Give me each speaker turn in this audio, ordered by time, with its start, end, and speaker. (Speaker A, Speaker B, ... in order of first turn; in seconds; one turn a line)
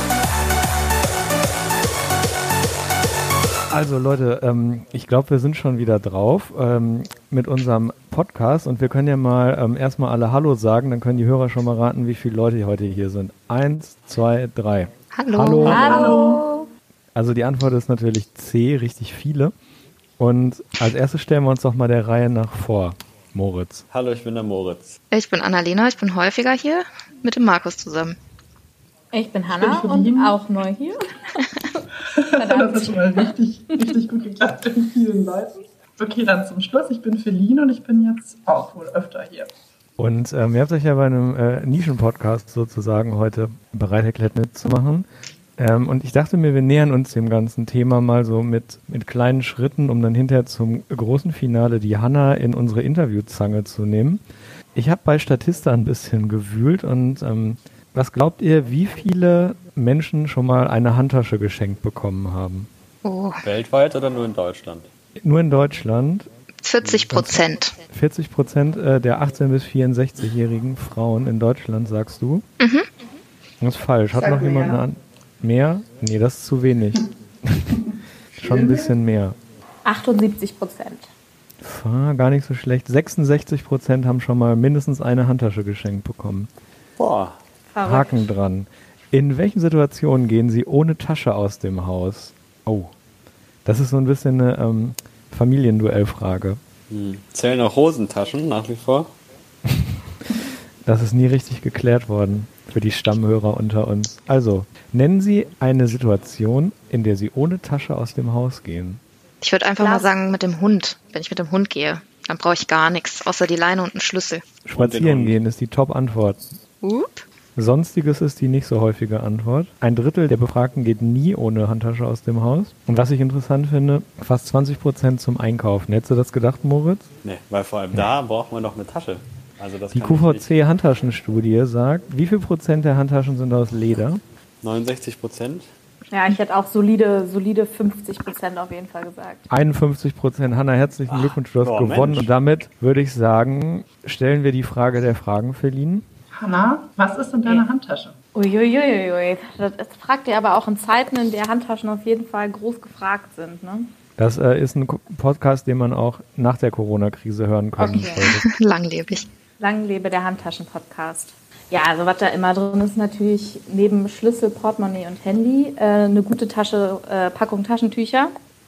Speaker A: 3.7-16.0
Speaker B: 15.1-16.7
Speaker C: 15.6-16.2
Speaker D: 15.7-16.1
Speaker E: 15.7-16.4
Speaker A: 17.1-19.5
Speaker A: 20.2-23.8
Speaker C: 23.9-25.0
Speaker B: 25.1-28.2
Speaker D: 29.1-31.0
Speaker E: 29.5-30.4
Speaker E: 32.1-39.5
Speaker D: 32.4-34.0
Speaker A: 40.0-45.1
Speaker A: 45.6-54.2
Speaker A: 54.8-62.7
Speaker B: 63.0-63.4
Speaker C: 63.4-64.9
Speaker A: 65.2-66.3
Speaker B: 66.6-67.8
Speaker A: 67.1-72.4
Speaker B: 72.6-72.9
Speaker A: 73.6-77.8
Speaker E: 74.2-74.8
Speaker A: 78.4-79.4
Speaker D: 79.8-81.1
Speaker A: 81.6-86.5
Speaker C: 87.0-87.4
Speaker D: 87.7-88.3
Speaker A: 87.8-92.9
Speaker A: 93.7-96.6
Speaker C: 96.9-99.1
Speaker A: 99.7-99.9
Speaker A: 100.8-109.0
Speaker B: 109.4-114.4
Speaker D: 109.8-110.2
Speaker A: 114.7-116.4
Speaker C: 114.7-115.4
Speaker B: 116.8-117.2
Speaker A: 117.6-127.1
Speaker C: 127.2-130.5
Speaker A: 129.9-134.2
Speaker C: 134.6-135.7
Speaker D: 136.1-139.4
Speaker A: 139.5-146.1
Speaker C: 141.1-142.3
Speaker E: 146.4-148.1
Speaker D: 148.3-153.9
Speaker A: 154.2-158.4
Speaker D: 157.8-158.4
Speaker B: 157.9-159.3
Speaker D: 159.6-168.3